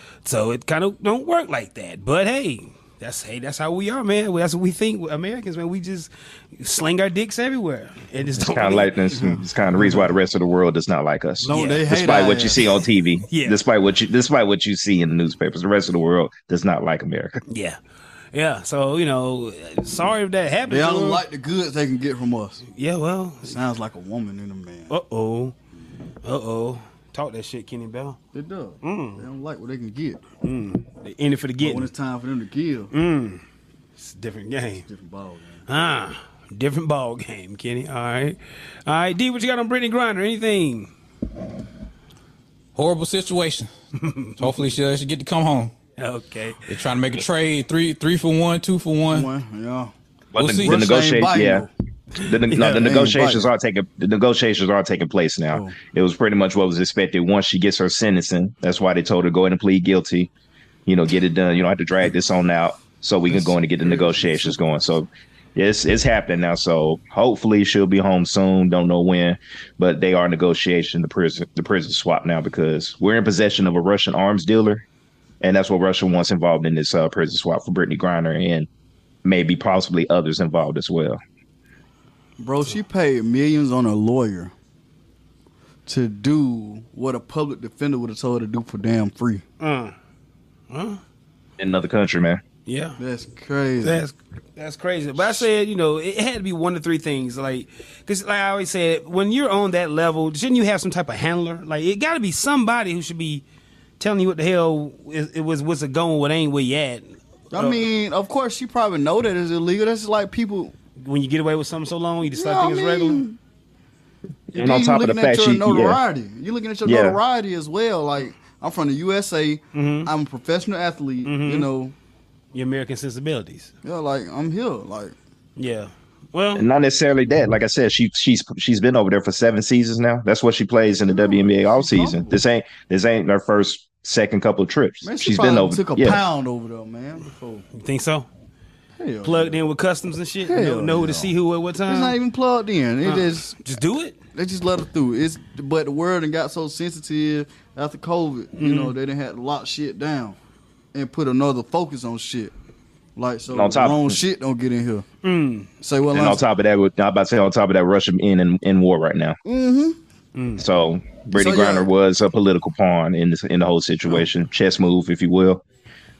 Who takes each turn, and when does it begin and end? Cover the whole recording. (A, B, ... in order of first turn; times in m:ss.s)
0:00.2-0:08.9 A
0:08.4-0:17.4 B
0:09.1-0:09.4 C
0:11.4-0:12.7 C
0:11.5-0:11.9 A
0:13.3-0:13.6 A
0:17.5-0:17.8 A
0:18.3-0:21.2 A
0:20.6-0:22.6 C
0:22.7-0:23.6 A
0:23.4-0:24.9 C
0:24.9-0:25.5 A
0:26.2-0:28.2 A
0:28.3-0:30.2 C
0:28.8-0:29.2 A
0:30.4-0:31.9 A
0:31.6-0:32.9 C
0:32.9-0:33.4 A
0:34.0-0:34.8 A
0:34.9-0:35.6 C
0:35.7-0:40.9 A
0:42.7-0:43.7 D
0:44.0-0:44.4 A
0:44.4-0:45.7 D
0:46.0-0:46.7 A
0:46.7-0:49.3 D
0:49.1-0:49.9 C
0:50.3-0:51.7 B
0:50.4-0:50.8 D
0:50.6-0:51.7 C
0:52.2-1:00.3 B
0:52.5-0:53.4 C
0:55.5-0:55.8 C
1:00.8-1:14.8 B
1:03.3-1:04.6 C
1:15.4-1:18.7 B
1:19.2-1:21.2 B
1:22.4-1:24.5 C
1:25.8-1:29.4 C
1:29.6-1:29.9 A
1:30.7-1:31.0 A
1:31.6-1:32.4 B
1:32.6-1:33.0 A
1:33.0-1:34.0 C
1:33.8-1:43.4 A
1:44.0-1:47.9 A
1:47.5-1:50.7 C
1:51.0-1:53.2 A
1:52.3-1:53.4 C
1:54.5-1:56.0 B
1:54.5-2:01.9 C
1:56.8-1:57.2 B
1:59.7-2:00.1 A
2:01.2-2:01.7 A
2:02.5-2:03.7 A
2:03.8-2:05.2 C
2:05.6-2:06.6 A
2:06.5-2:16.2 B
2:11.0-2:12.4 C
2:15.0-2:17.6 C
2:17.7-2:18.3 A
2:19.0-2:19.6 C
2:19.2-2:22.2 A
2:20.4-2:21.3 C
2:21.9-2:23.6 C
2:23.0-2:24.2 A
2:24.3-2:30.4 C
2:28.6-2:28.9 A
2:30.9-2:32.5 C
2:33.2-2:35.0 C
2:33.5-2:34.2 B
2:35.2-2:35.7 A
2:35.8-2:36.4 C
2:36.1-2:39.4 B
2:39.4-2:40.0 C
2:40.4-2:40.6 A
2:40.6-2:45.6 B
2:41.4-2:41.9 C